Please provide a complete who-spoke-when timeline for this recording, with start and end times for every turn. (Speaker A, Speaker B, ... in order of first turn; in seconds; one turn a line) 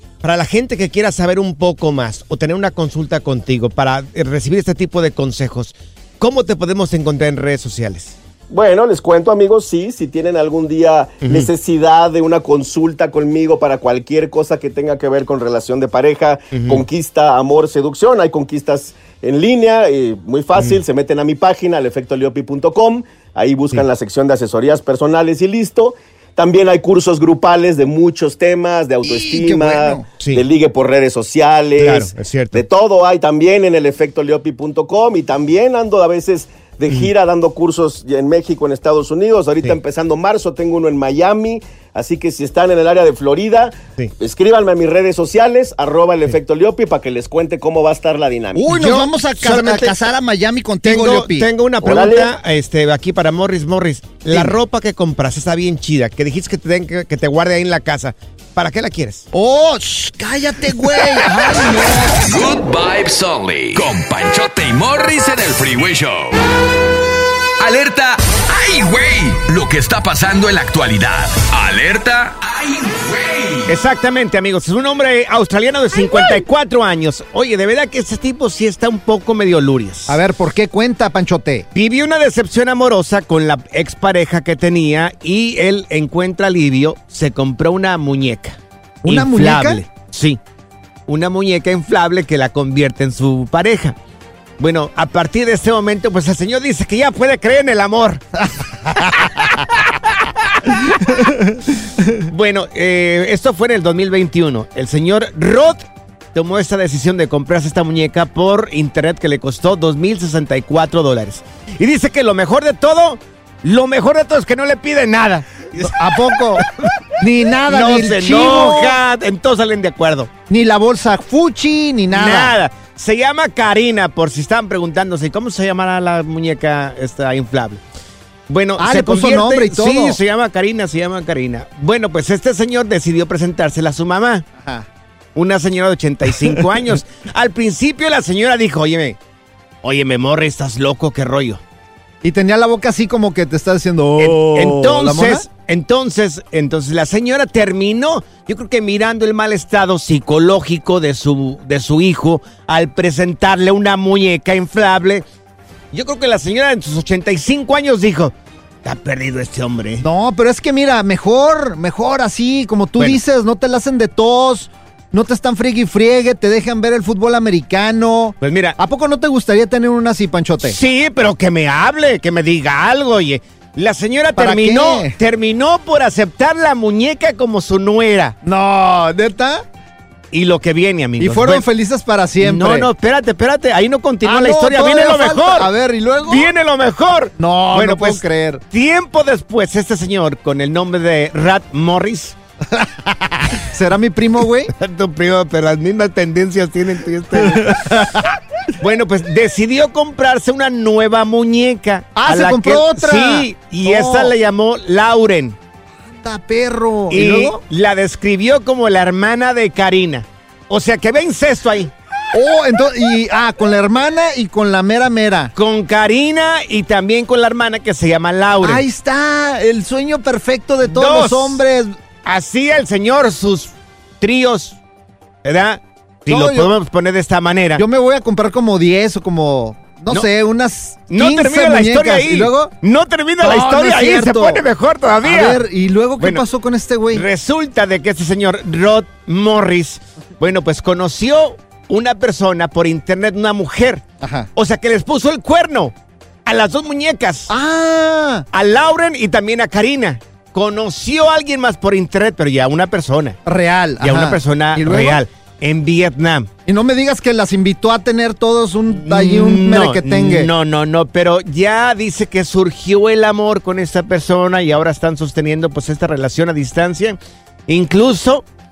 Speaker A: 0.2-8.2
Speaker B: 8.5-48.7
Speaker A: 11.2-11.5
Speaker A: 16.5-16.8
Speaker A: 20.6-20.8
Speaker C: 29.0-30.1
Speaker A: 30.2-30.4
Speaker A: 31.8-32.6
Speaker C: 48.5-51.5
Speaker A: 48.7-50.0
Speaker A: 50.8-59.2
Speaker B: 51.8-52.3
Speaker C: 59.3-62.4
Speaker D: 62.1-66.4
Speaker D: 67.6-73.7
Speaker A: 73.7-80.2
Speaker C: 80.1-81.7
Speaker A: 81.7-90.4
Speaker C: 89.0-89.8
Speaker A: 91.1-94.0
Speaker A: 94.6-98.2
Speaker A: 102.3-116.6
Speaker C: 115.8-116.7
Speaker C: 117.2-118.9
Speaker A: 117.7-120.3
Speaker C: 120.5-122.5
Speaker A: 122.1-127.8
Speaker A: 128.5-134.4
Speaker C: 128.8-130.2
Speaker C: 134.6-134.9
Speaker A: 135.3-139.2
Speaker A: 139.8-141.6
Speaker C: 142.2-145.4
Speaker A: 144.2-155.2
Speaker A: 155.9-160.0
Speaker C: 160.0-170.8
Speaker A: 168.4-168.8
Speaker A: 170.6-178.4
Speaker C: 174.3-175.1
Speaker C: 178.4-179.6
Speaker A: 180.3-181.7
Speaker C: 181.2-182.9
Speaker A: 182.4-185.7
Speaker C: 184.2-186.5
Speaker A: 186.2-192.3
Speaker C: 187.4-188.6
Speaker C: 192.8-194.7
Speaker A: 194.7-198.1
Speaker C: 197.7-198.1
Speaker A: 198.8-205.6
Speaker C: 202.2-204.3
Speaker C: 206.1-207.6
Speaker A: 207.1-211.9
Speaker C: 212.3-215.5
Speaker A: 215.5-218.8
Speaker C: 218.6-221.9
Speaker A: 220.8-221.6
Speaker A: 222.2-224.8
Speaker A: 225.4-227.8
Speaker C: 226.3-226.7
Speaker C: 227.8-232.7
Speaker A: 231.1-235.6
Speaker C: 233.4-234.6
Speaker C: 235.2-237.2
Speaker A: 236.2-236.4
Speaker A: 237.1-244.0
Speaker C: 244.2-244.5
Speaker A: 244.5-245.9
Speaker A: 246.4-247.5
Speaker C: 247.5-248.4
Speaker A: 248.5-253.4
Speaker C: 253.4-255.2
Speaker A: 254.0-256.5
Speaker C: 256.6-260.5
Speaker A: 258.9-268.4